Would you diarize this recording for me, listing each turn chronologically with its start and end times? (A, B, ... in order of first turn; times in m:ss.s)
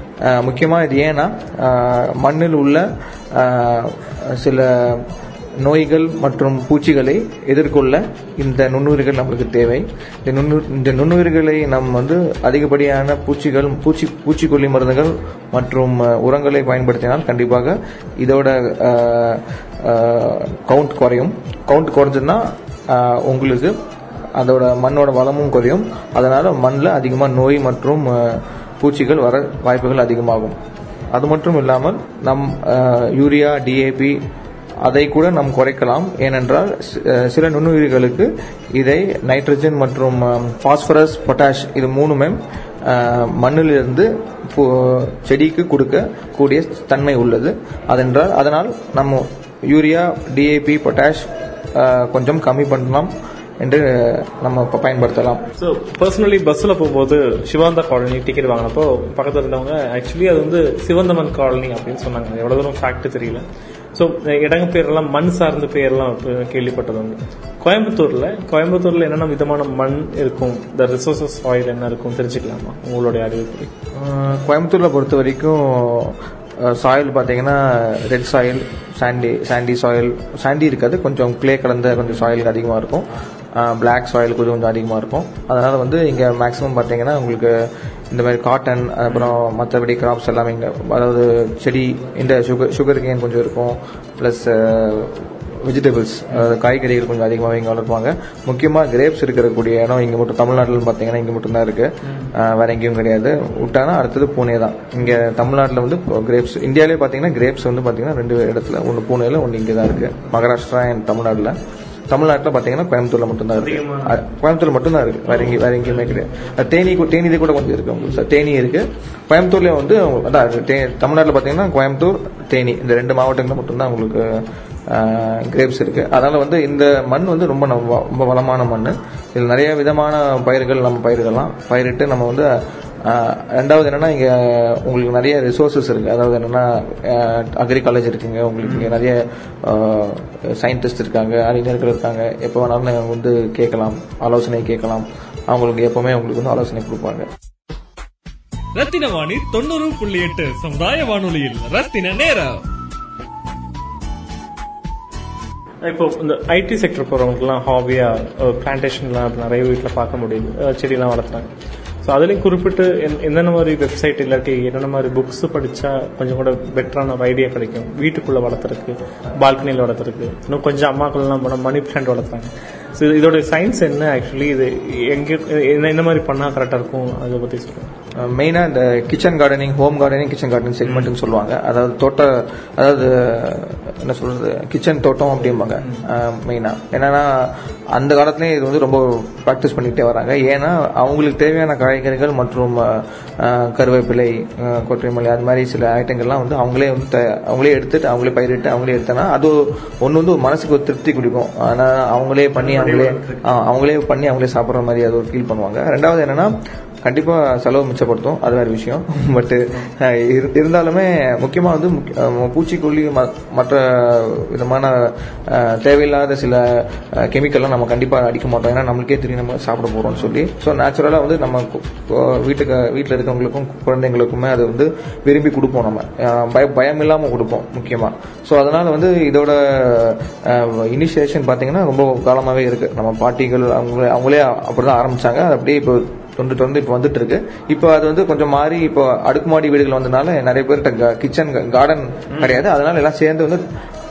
0:00.2-0:05.0 A
0:05.6-0:23.7 A
0:24.4-0:30.6 A
0:31.1-0:34.2 A
0:34.8-0:55.4 A
0:55.6-1:03.4 B
1:03.9-1:13.7 B
1:13.9-1:27.5 A
1:28.1-1:51.6 A
1:29.1-1:29.4 B
1:52.1-2:04.2 A
1:53.6-1:54.2 B
1:55.3-1:56.5 B
2:04.9-2:12.5 A
2:13.0-2:27.3 A
2:18.6-2:18.9 B
2:28.8-2:32.6 C
2:35.9-2:41.5 B
2:42.0-2:57.9 B
2:58.2-3:26.5 A
3:22.6-3:23.6 B
3:27.0-4:03.6 A
4:02.3-4:02.6 B